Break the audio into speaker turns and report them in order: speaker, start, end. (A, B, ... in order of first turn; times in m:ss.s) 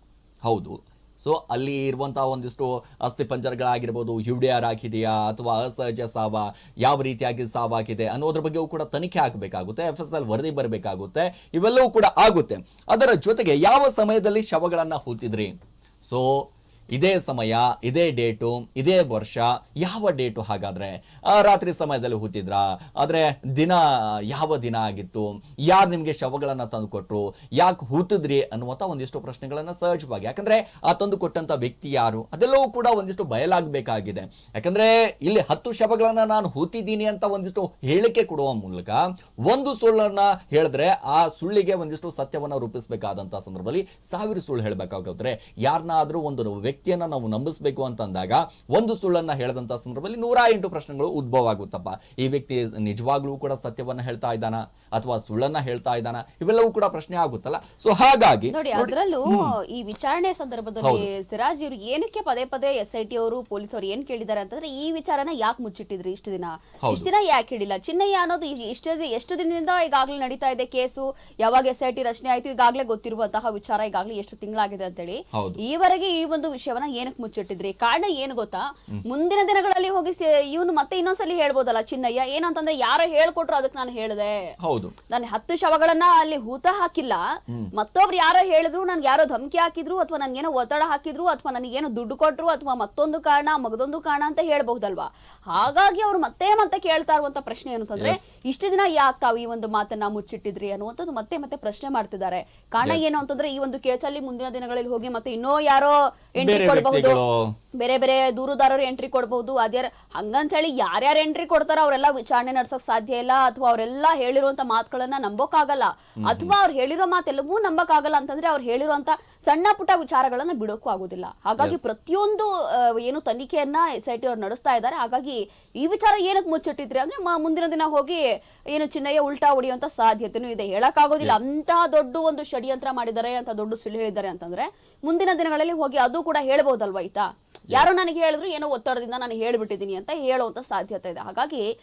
0:00.4-0:59.5 A
0:58.5-1:24.5 B
1:00.8-1:01.1 A
1:06.8-1:07.1 A
1:15.3-1:15.6 A
1:24.6-1:25.0 A
1:25.1-1:27.2 B
1:27.7-1:47.2 B
1:38.0-1:38.2 A
1:42.8-1:43.2 A
1:46.4-1:47.5 A
1:47.8-2:21.6 B
1:56.2-1:56.5 A
2:01.6-2:01.9 A